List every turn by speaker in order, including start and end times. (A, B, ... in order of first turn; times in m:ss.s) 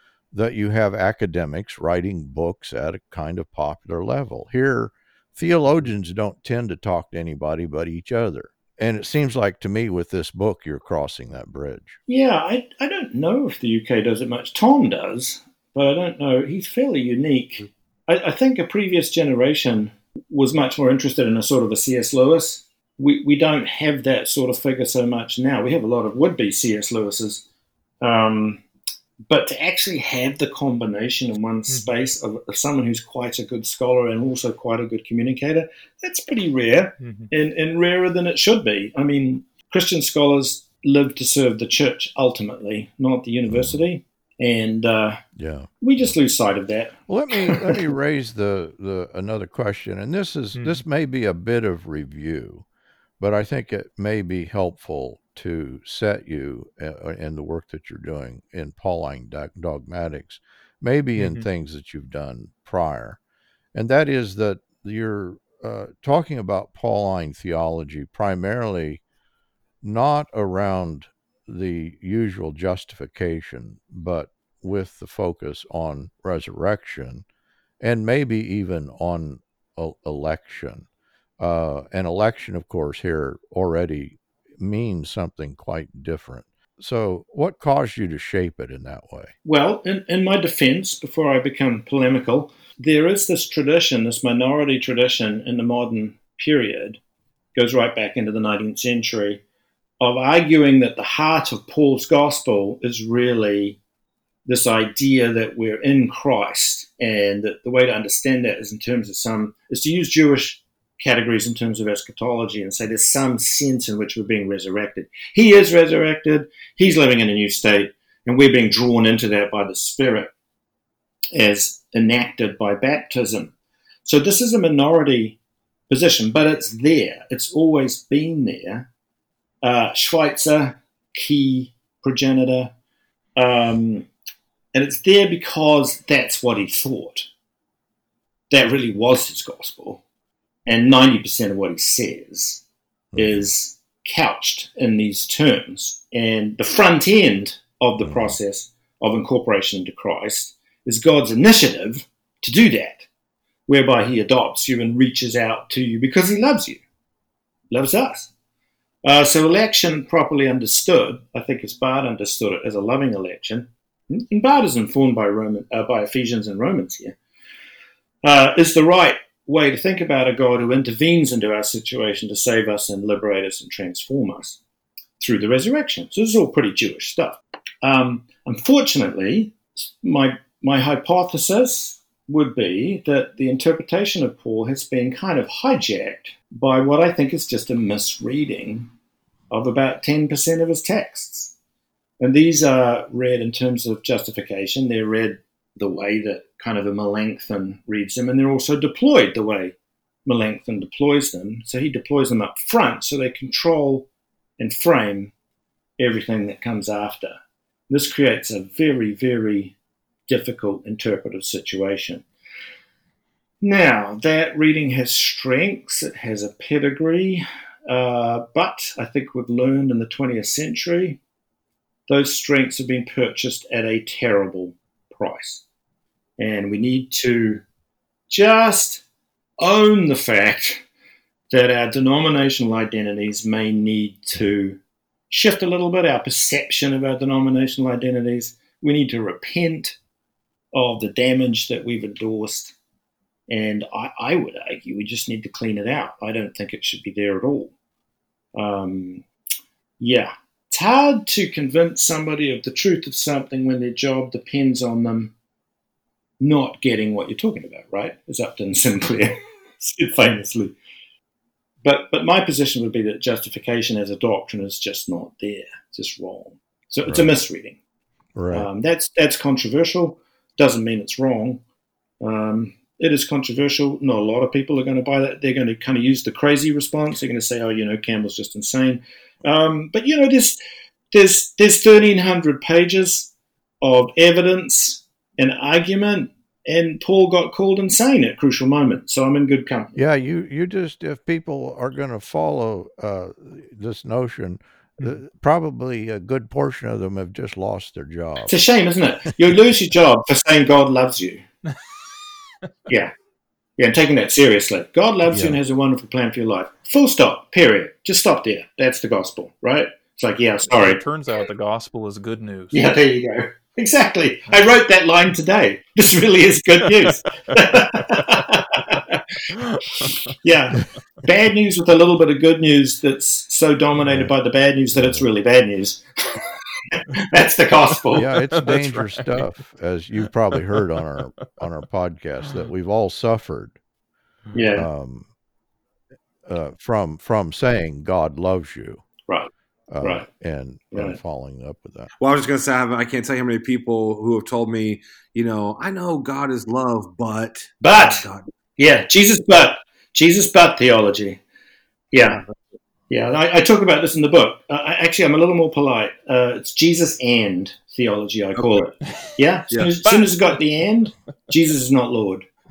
0:00.3-0:12.0 A
0:12.1-0:27.4 B
0:28.0-0:28.6 B
0:29.3-0:45.2 B
0:37.0-0:37.3 C
0:43.5-0:43.8 A
0:45.4-0:46.1 A
0:45.8-0:47.8 B
0:47.1-0:52.6 A
0:50.6-0:50.8 C
0:53.2-1:03.2 A
1:01.2-1:01.5 C
1:03.7-1:09.0 A
1:09.8-1:17.2 A
1:17.8-1:20.9 A
1:21.4-1:29.3 A
1:29.4-1:37.0 B
1:37.6-1:39.4 B
1:40.0-1:43.8 B
1:44.5-2:00.3 B
2:01.3-2:03.5 B
2:04.0-2:05.4 B
2:05.9-2:08.9 B
2:09.6-2:12.7 B
2:13.4-2:14.1 B
2:14.7-2:17.3 B
2:18.5-2:20.0 B
2:20.7-2:22.6 B
2:23.1-2:23.5 A
2:23.2-2:33.1 B
2:28.0-2:28.4 A
2:33.7-2:36.8 B
2:37.7-2:38.3 B
2:39.0-2:47.2 B
2:48.2-2:54.6 B
2:55.2-3:08.9 B
3:09.5-3:11.5 B
3:12.2-3:24.1 B
3:24.6-3:25.3 B
3:26.0-3:29.8 B
3:30.3-3:32.2 B
3:33.6-3:41.2 B
3:42.1-3:45.6 B
3:46.4-3:47.6 B
3:48.3-3:49.0 B
3:49.6-3:50.8 B
3:51.5-3:54.8 B
3:55.3-4:00.0 B
4:00.7-4:02.7 B
4:03.5-4:07.7 B
4:08.6-4:09.2 B
4:10.0-4:15.3 B
4:16.4-4:20.8 B
4:21.8-4:27.8 B
4:27.1-4:27.3 A
4:28.4-4:28.7 A
4:28.5-4:31.6 B
4:32.2-4:40.6 B
4:41.1-4:50.0 B
4:50.0-4:58.6 A
4:58.5-5:01.4 B
5:02.9-5:03.1 B
5:03.8-5:11.0 B
5:05.3-5:05.6 A
5:10.7-5:12.9 C
5:12.7-5:19.3 B
5:19.6-5:20.2 C
5:20.0-5:28.3 B
5:24.0-5:24.3 A
5:25.0-5:25.2 A
5:28.1-5:33.8 A
5:28.5-5:29.4 C
5:34.6-5:34.9 B
5:34.8-5:35.3 A
5:36.4-5:39.0 A
5:39.9-5:42.1 A
5:40.9-5:41.2 B
5:42.2-5:48.4 D
5:47.8-5:48.2 B
5:48.8-5:51.4 B
5:52.1-5:52.4 B
5:53.1-6:02.5 B
5:58.6-5:58.8 D